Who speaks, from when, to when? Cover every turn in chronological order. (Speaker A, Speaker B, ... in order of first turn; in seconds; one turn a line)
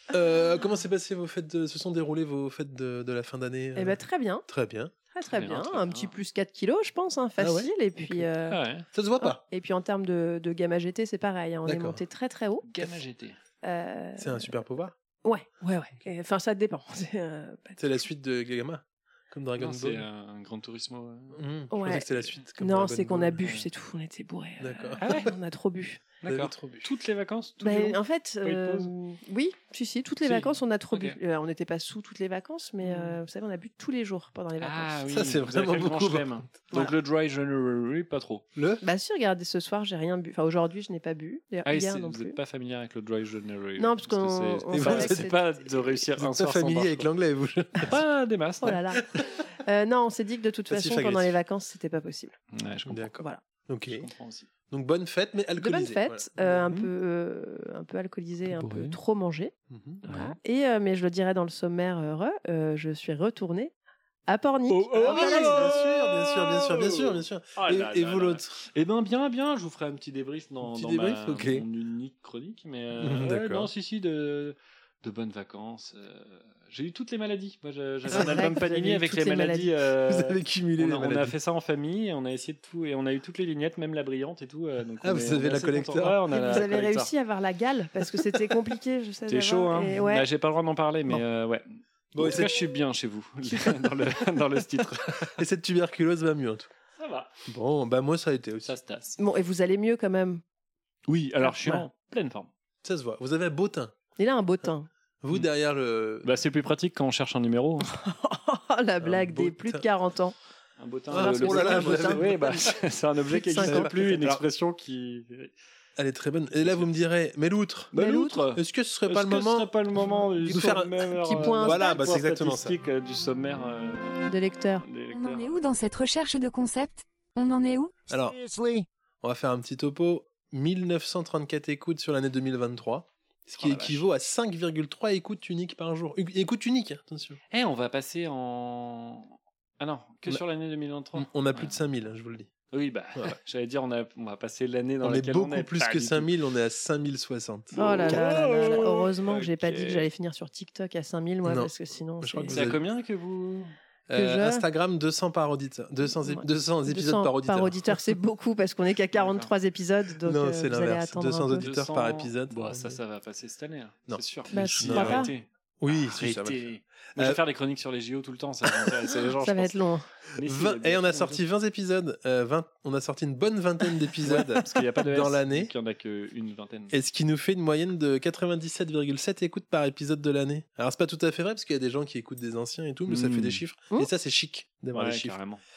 Speaker A: 0.1-5.0
Speaker B: 3.8-4.5
Speaker B: 5.1-8.6
Speaker C: 5.2-6.2
Speaker A: 7.4-8.3
Speaker C: 8.5-8.9
Speaker A: 8.9-9.4
Speaker B: 9.2-12.7
Speaker A: 11.7-12.0
Speaker C: 12.6-13.4
Speaker B: 13.6-14.5
Speaker A: 14.2-15.0
Speaker B: 15.2-18.0
Speaker A: 17.8-20.1
Speaker C: 19.6-21.4
Speaker A: 21.3-23.5
Speaker B: 21.7-26.1
Speaker C: 23.4-23.7
Speaker A: 24.6-25.3
Speaker C: 25.0-25.3
Speaker C: 26.2-28.9
Speaker A: 26.2-26.9
Speaker B: 27.6-35.1
Speaker C: 30.9-31.2
Speaker C: 32.8-33.2
Speaker C: 34.6-38.4
Speaker A: 35.1-36.9
Speaker A: 38.6-38.8
Speaker B: 38.8-42.4
Speaker C: 41.7-47.1
Speaker B: 43.8-45.7
Speaker A: 44.7-45.3
Speaker A: 46.2-47.9
Speaker C: 47.8-48.7
Speaker B: 48.6-52.4
Speaker A: 50.7-51.4
Speaker C: 52.5-53.1
Speaker A: 52.9-54.1
Speaker C: 53.9-54.5
Speaker A: 54.7-56.6
Speaker B: 55.6-63.7
Speaker C: 58.5-59.0
Speaker A: 59.7-60.0
Speaker C: 60.1-60.4
Speaker B: 64.3-65.7
Speaker C: 64.7-87.1
Speaker A: 65.0-68.6
Speaker A: 70.6-71.7
Speaker A: 73.0-73.7
Speaker B: 78.1-79.7
Speaker A: 78.1-78.6
Speaker A: 80.1-81.4
Speaker A: 85.0-86.7
Speaker B: 86.3-90.3
Speaker C: 89.3-95.4
Speaker A: 92.1-92.6
Speaker A: 95.3-96.7
Speaker C: 97.0-97.3
Speaker A: 97.5-98.8
Speaker C: 98.7-99.2
Speaker B: 99.2-100.4
Speaker C: 101.1-102.5
Speaker B: 101.4-101.9
Speaker A: 102.8-103.9
Speaker B: 104.2-104.9
Speaker A: 105.2-106.3
Speaker C: 106.2-107.9
Speaker B: 107.9-110.3
Speaker A: 109.0-109.8
Speaker C: 110.8-115.5
Speaker A: 111.1-112.8
Speaker B: 111.1-112.8
Speaker B: 113.3-114.2
Speaker A: 113.6-114.4
Speaker A: 116.0-118.0
Speaker C: 116.6-116.9
Speaker C: 117.9-124.3
Speaker B: 118.0-118.5
Speaker A: 118.5-119.7
Speaker B: 120.0-122.2
Speaker A: 120.5-122.8
Speaker B: 124.3-124.9
Speaker C: 124.8-125.7
Speaker D: 125.1-128.9
Speaker A: 128.1-128.4
Speaker A: 129.2-137.4
Speaker C: 133.6-134.1
Speaker C: 137.5-141.8
Speaker A: 141.1-142.5
Speaker C: 142.7-146.3
Speaker A: 145.0-148.8
Speaker C: 147.7-150.1
Speaker B: 147.8-152.7
Speaker A: 151.4-152.8
Speaker C: 152.5-153.7
Speaker A: 154.1-158.0
Speaker B: 154.1-154.7
Speaker B: 156.2-161.7
Speaker C: 159.1-159.5
Speaker A: 160.2-163.0
Speaker C: 161.6-165.4
Speaker A: 164.1-167.4
Speaker B: 164.5-165.3
Speaker C: 166.2-169.7
Speaker A: 168.6-169.0
Speaker B: 169.4-170.1
Speaker C: 170.3-171.4
Speaker A: 170.4-175.7
Speaker C: 174.2-176.9
Speaker A: 176.9-185.4
Speaker C: 183.1-183.6
Speaker C: 184.9-185.6